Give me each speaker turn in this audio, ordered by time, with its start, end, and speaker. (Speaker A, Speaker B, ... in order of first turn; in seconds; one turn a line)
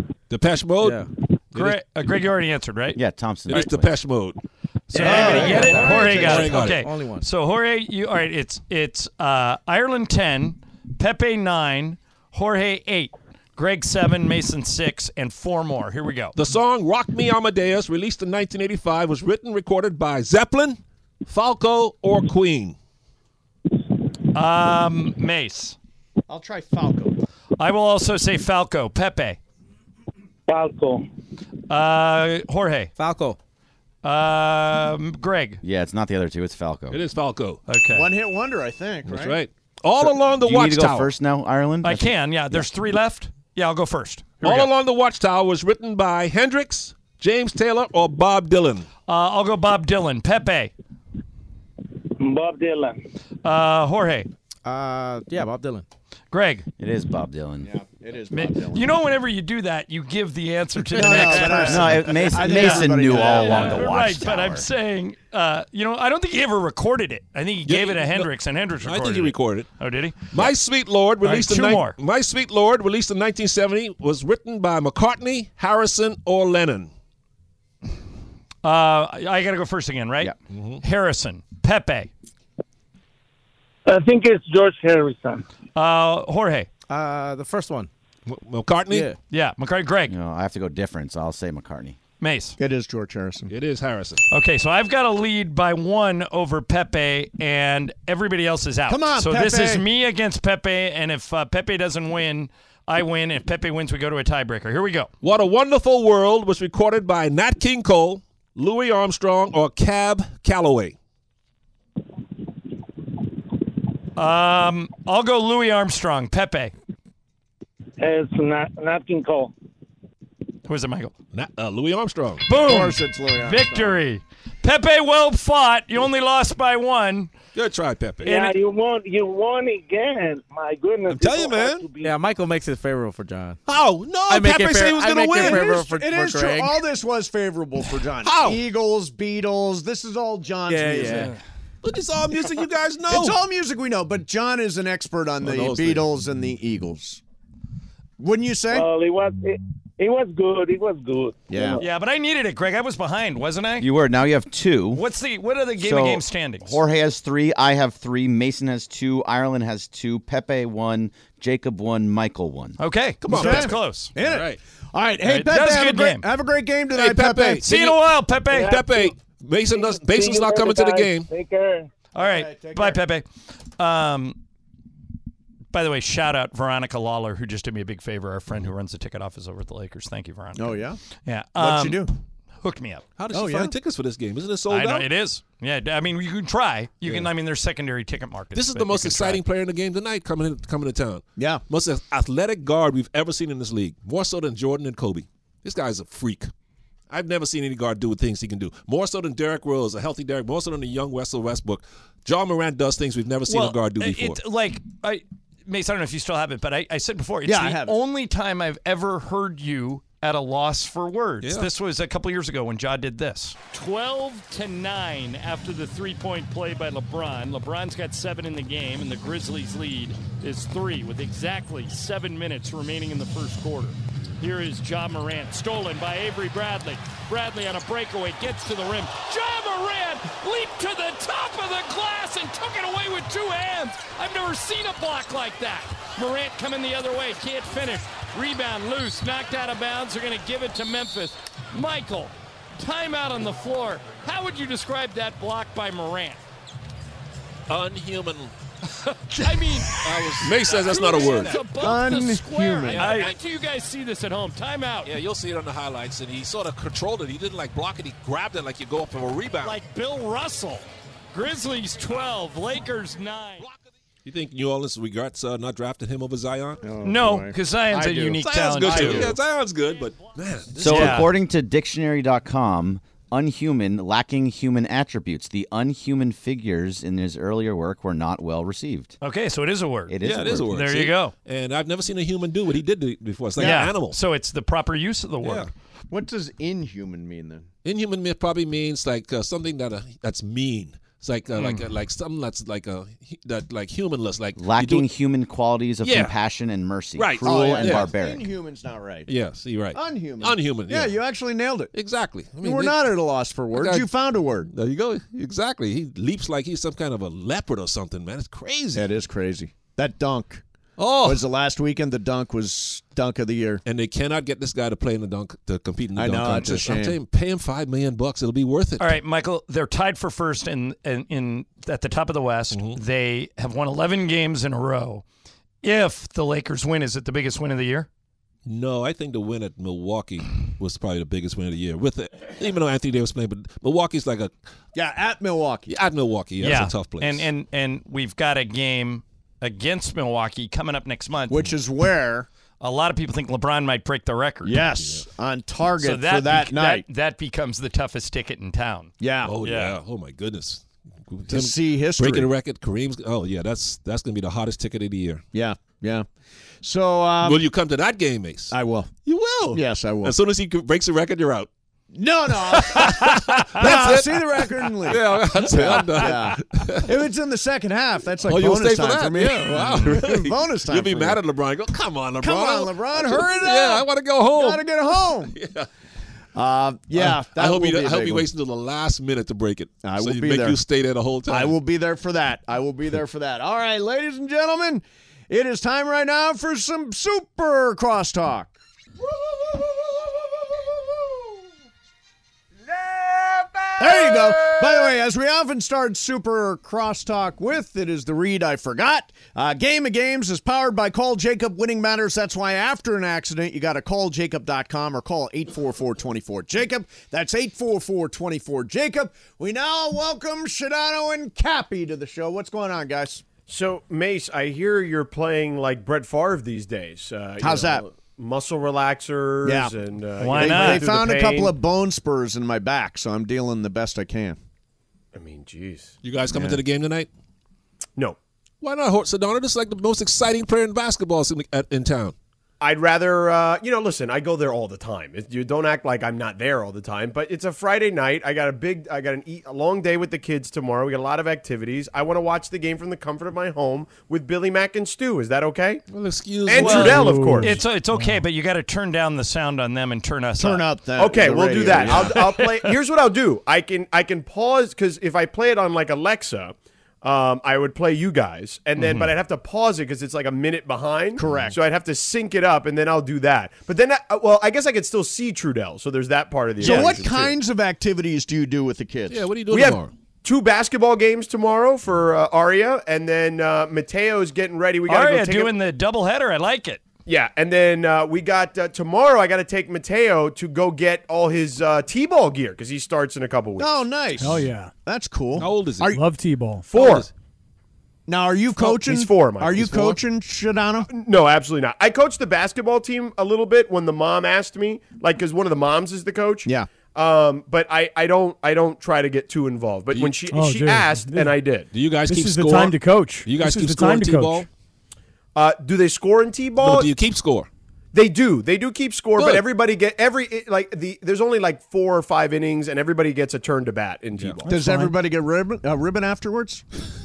Speaker A: 0.3-1.8
Speaker B: 0.8-1.1
Speaker C: 1.5-3.0
Speaker D: 2.9-3.9
Speaker A: 3.5-4.4
Speaker C: 4.9-16.4
Speaker B: 4.9-7.2
Speaker E: 5.0-6.5
Speaker A: 5.0-6.8
Speaker A: 16.4-22.8
Speaker C: 24.3-25.8
Speaker E: 26.3-27.1
Speaker C: 27.6-29.4
Speaker F: 30.5-31.0
Speaker C: 31.7-32.9
Speaker B: 33.0-33.4
Speaker C: 34.0-35.6
Speaker D: 35.6-37.0
Speaker A: 36.9-37.6
Speaker C: 37.7-38.1
Speaker E: 37.9-39.4
Speaker A: 39.1-41.1
Speaker D: 40.3-42.7
Speaker C: 41.8-44.7
Speaker A: 44.4-48.9
Speaker C: 49.1-50.7
Speaker F: 52.2-53.0
Speaker C: 53.4-54.3
Speaker B: 54.6-55.9
Speaker C: 56.3-56.6
Speaker D: 56.8-57.7
Speaker E: 57.6-58.9
Speaker C: 58.3-70.5
Speaker E: 60.9-63.9
Speaker B: 61.2-61.6
Speaker D: 61.6-64.7
Speaker A: 67.7-68.3
Speaker A: 68.8-69.7
Speaker A: 70.3-76.9
Speaker C: 71.2-72.0
Speaker C: 78.6-82.1
Speaker A: 80.5-80.8
Speaker F: 83.8-85.4
Speaker C: 85.8-86.7
Speaker B: 86.9-87.9
Speaker A: 88.3-89.1
Speaker C: 89.3-90.1
Speaker D: 90.1-92.0
Speaker C: 92.2-92.6
Speaker E: 92.6-93.5
Speaker A: 93.5-94.2
Speaker C: 94.3-105.1
Speaker E: 98.9-99.8
Speaker A: 105.2-111.0
Speaker C: 114.2-116.7
Speaker F: 118.0-119.5
Speaker C: 120.7-121.1
Speaker A: 121.3-122.5
Speaker C: 122.5-127.3
Speaker E: 122.5-124.0
Speaker A: 127.5-128.5
Speaker F: 128.2-132.1
Speaker A: 131.1-131.9
Speaker B: 132.0-133.6
Speaker A: 133.7-135.8
Speaker B: 134.3-136.8
Speaker E: 135.3-141.3
Speaker A: 138.2-138.6
Speaker B: 140.7-141.3
Speaker A: 141.8-143.4
Speaker E: 143.1-147.2
Speaker A: 145.4-146.1
Speaker E: 148.2-148.9
Speaker F: 148.7-151.8
Speaker E: 151.5-151.8
Speaker C: 151.8-153.9
Speaker D: 153.8-155.0
Speaker C: 154.9-156.8
Speaker D: 155.8-162.8
Speaker C: 162.8-164.1
Speaker A: 163.2-164.6
Speaker E: 163.3-167.6
Speaker C: 165.2-166.2
Speaker A: 166.9-168.0
Speaker C: 167.6-168.8
Speaker F: 168.5-169.1
Speaker A: 168.5-171.3
Speaker F: 169.7-171.9
Speaker C: 172.1-173.3
Speaker E: 172.2-173.0
Speaker C: 173.8-174.4
Speaker C: 175.7-182.1
Speaker E: 180.6-181.0
Speaker E: 181.6-182.1
Speaker C: 182.6-183.0
Speaker A: 183.2-185.1
Speaker E: 183.3-183.7
Speaker C: 184.7-189.4
Speaker A: 188.5-196.5
Speaker E: 191.3-191.6
Speaker A: 197.1-204.4
Speaker C: 203.5-246.4
Speaker E: 207.4-207.9
Speaker A: 247.7-248.5
Speaker C: 249.1-255.1
Speaker A: 250.0-251.6
Speaker E: 251.7-253.2
Speaker A: 252.9-253.3
Speaker A: 255.0-259.8
Speaker C: 259.6-263.6
Speaker A: 264.2-266.8
Speaker E: 266.8-268.1
Speaker C: 267.0-269.4
Speaker A: 267.9-271.3
Speaker E: 268.7-269.4
Speaker C: 270.8-271.3
Speaker D: 270.8-279.1
Speaker C: 279.2-281.3
Speaker D: 280.1-280.7
Speaker A: 280.2-284.2
Speaker E: 283.6-283.9
Speaker C: 283.6-285.7
Speaker A: 285.4-285.7
Speaker E: 286.1-287.6
Speaker A: 287.8-295.1
Speaker C: 291.6-291.9
Speaker D: 294.6-298.5
Speaker A: 296.0-296.4
Speaker A: 297.1-298.1
Speaker E: 297.4-299.3
Speaker A: 299.3-301.2
Speaker E: 299.9-301.9
Speaker A: 301.9-304.1
Speaker E: 302.6-304.7
Speaker A: 304.7-309.1
Speaker E: 308.9-310.6
Speaker A: 311.0-311.4
Speaker E: 311.2-313.8
Speaker A: 313.8-319.2
Speaker E: 316.1-317.2
Speaker C: 319.0-325.2
Speaker A: 322.7-323.0
Speaker C: 325.8-328.1
Speaker A: 328.6-334.5
Speaker E: 334.9-335.9
Speaker A: 335.9-337.5
Speaker C: 336.6-341.6
Speaker E: 341.5-342.5
Speaker C: 342.8-344.8
Speaker E: 344.6-347.0
Speaker C: 346.0-349.9
Speaker E: 349.2-349.5
Speaker A: 349.4-355.4
Speaker E: 351.5-352.5
Speaker E: 355.5-356.3
Speaker E: 356.8-357.6
Speaker A: 357.4-358.7
Speaker E: 358.7-359.1
Speaker A: 359.2-361.7
Speaker E: 359.7-360.4
Speaker E: 362.1-371.4
Speaker A: 362.7-367.1
Speaker A: 368.4-375.9
Speaker E: 372.4-375.5
Speaker E: 376.5-378.4
Speaker A: 377.1-381.8
Speaker E: 380.0-380.8
Speaker E: 381.5-388.7
Speaker E: 394.0-413.4
Speaker G: 413.6-421.8
Speaker E: 417.6-418.0
Speaker E: 419.6-419.9
Speaker C: 420.4-421.1
Speaker E: 420.5-424.6
Speaker G: 425.3-426.1
Speaker A: 426.2-427.3
Speaker E: 426.5-426.8
Speaker A: 428.8-432.3
Speaker G: 432.8-446.0
Speaker A: 446.1-447.5
Speaker G: 446.6-447.8
Speaker C: 446.8-450.9
Speaker H: 446.9-448.4
Speaker E: 450.6-452.4
Speaker G: 451.1-467.6
Speaker C: 451.9-452.9
Speaker C: 459.0-459.3
Speaker E: 461.4-461.8
Speaker E: 466.8-469.5
Speaker A: 469.3-470.1
Speaker G: 469.7-475.7
Speaker C: 475.1-477.0
Speaker G: 477.2-484.1
Speaker E: 483.8-486.2
Speaker H: 484.4-484.9
Speaker A: 485.6-486.1
Speaker H: 486.1-487.0
Speaker G: 486.9-487.3
Speaker E: 488.3-491.1
Speaker G: 488.7-490.2
Speaker G: 491.1-501.9
Speaker E: 496.6-496.9
Speaker A: 500.1-500.4
Speaker H: 500.5-501.6
Speaker A: 501.9-504.7
Speaker H: 502.2-504.7
Speaker G: 505.5-507.1
Speaker A: 506.8-507.7
Speaker G: 508.1-514.7
Speaker A: 509.4-509.6
Speaker A: 514.4-514.6
Speaker H: 514.7-515.1
Speaker E: 514.7-516.8